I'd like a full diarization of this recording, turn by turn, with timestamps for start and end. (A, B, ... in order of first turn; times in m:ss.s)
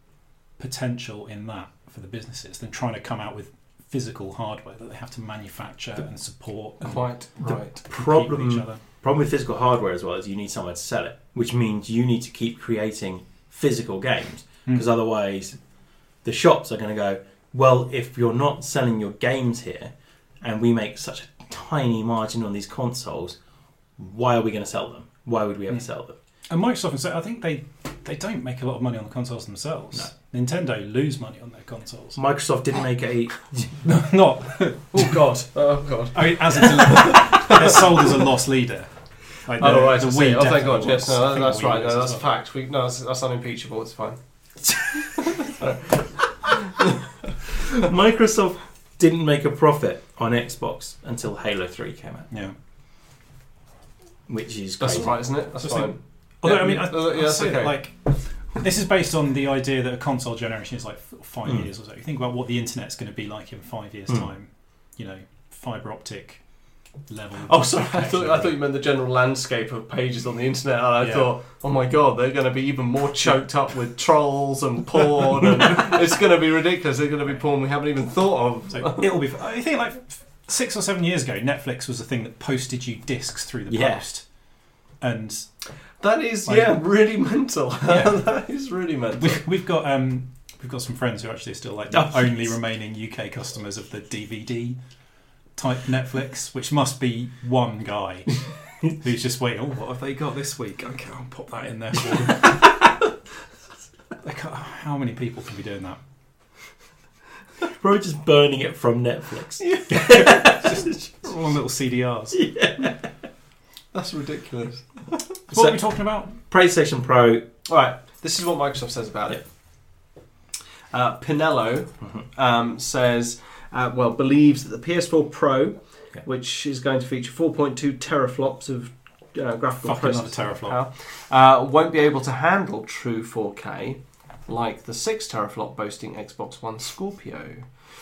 0:00.6-0:08.8 A
0:06.8-0:07.8 B
0:07.5-0:15.6 C
0:16.2-0:23.4 C
0:24.0-0:26.2 C
0:26.5-0:32.2 A
0:32.1-0:33.8 C
0:33.8-0:35.2 A
0:34.9-0:38.0 B
0:36.1-0:38.9 A
0:39.4-0:42.2 A
0:39.6-0:44.2 B
0:45.0-0:46.1 B
0:46.6-0:46.9 B
0:47.7-0:52.3 C
0:54.3-0:55.2 C
0:54.8-0:57.8 B
0:55.6-1:06.4 A
1:07.1-1:08.5 A
1:07.4-1:19.1 B
1:11.0-1:11.3 A
1:18.7-1:24.2 A
1:23.7-1:24.0 C
1:25.0-1:25.5 A
1:26.0-1:29.4 B
1:26.4-1:26.8 A
1:27.9-1:28.2 A
1:29.2-1:34.8 A
1:31.9-1:32.5 C
1:35.6-1:42.7 A
1:44.2-1:46.0 A
1:47.6-1:50.9 C
1:49.6-1:50.2 B
1:50.2-1:52.4 A
1:52.3-1:53.0 C
1:53.9-1:55.2 B
1:55.5-1:56.3 A
1:55.5-1:55.8 C
1:56.3-1:57.4 C
1:57.6-1:59.4 B
2:00.9-2:17.7 B
2:09.8-2:10.8 A